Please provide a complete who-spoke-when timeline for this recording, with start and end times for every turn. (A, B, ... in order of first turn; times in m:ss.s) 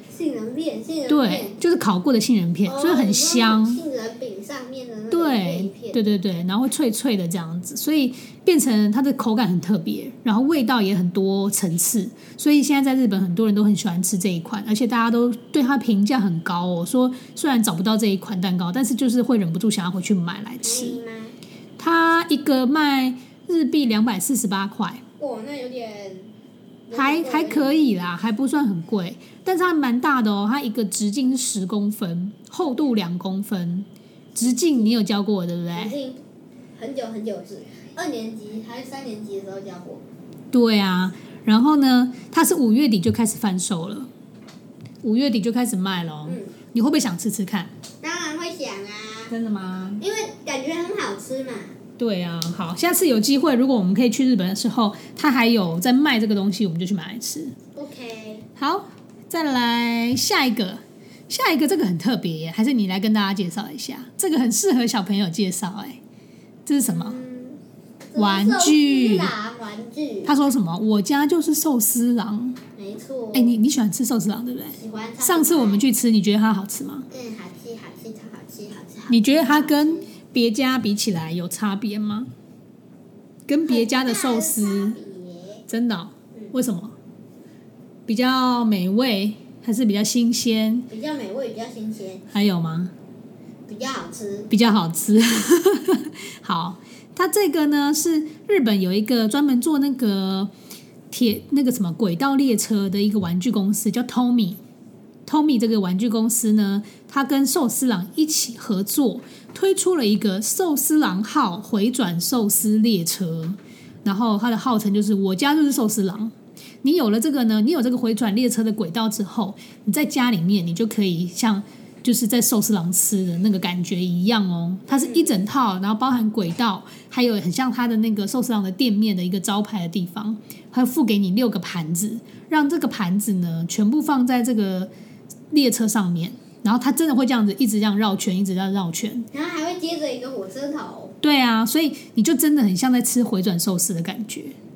0:00.1-0:01.6 A
0:01.1-0:03.8 B
0:02.7-0:06.1 A
0:05.1-0:21.0 B
0:20.6-0:21.3 A
0:21.8-0:25.0 B
0:25.2-0:26.3 A
0:26.9-0:28.0 A
0:26.9-0:36.0 B
0:34.3-0:34.9 A
0:35.7-0:36.2 A
0:36.8-0:40.0 A
0:40.5-0:44.1 B
0:45.0-0:47.7 B
0:46.2-0:46.5 A
0:48.0-0:49.3 A
0:49.3-0:50.0 B
0:50.0-0:51.7 A
0:52.0-0:57.5 B
0:57.7-0:58.5 A
0:58.6-1:06.0 B
1:06.7-1:07.2 B
1:06.8-1:07.6 A
1:08.1-1:10.3 A
1:08.2-1:09.3 B
1:10.3-1:12.6 B
1:12.8-1:13.6 A
1:13.3-1:17.1 B
1:14.7-1:15.8 A
1:17.1-1:20.1 A
1:19.1-1:22.3 B
1:23.5-1:25.0 B
1:23.7-1:25.6 A
1:25.7-1:27.0 B
1:28.1-1:30.9 B
1:30.9-1:32.3 A
1:32.3-1:32.9 B
1:33.7-1:34.5 A
1:34.5-1:40.5 B
1:41.1-1:44.6 B
1:45.3-2:14.9 B
2:04.9-2:05.4 A
2:15.5-2:19.3 B
2:19.3-2:21.2 A
2:21.2-2:24.6 B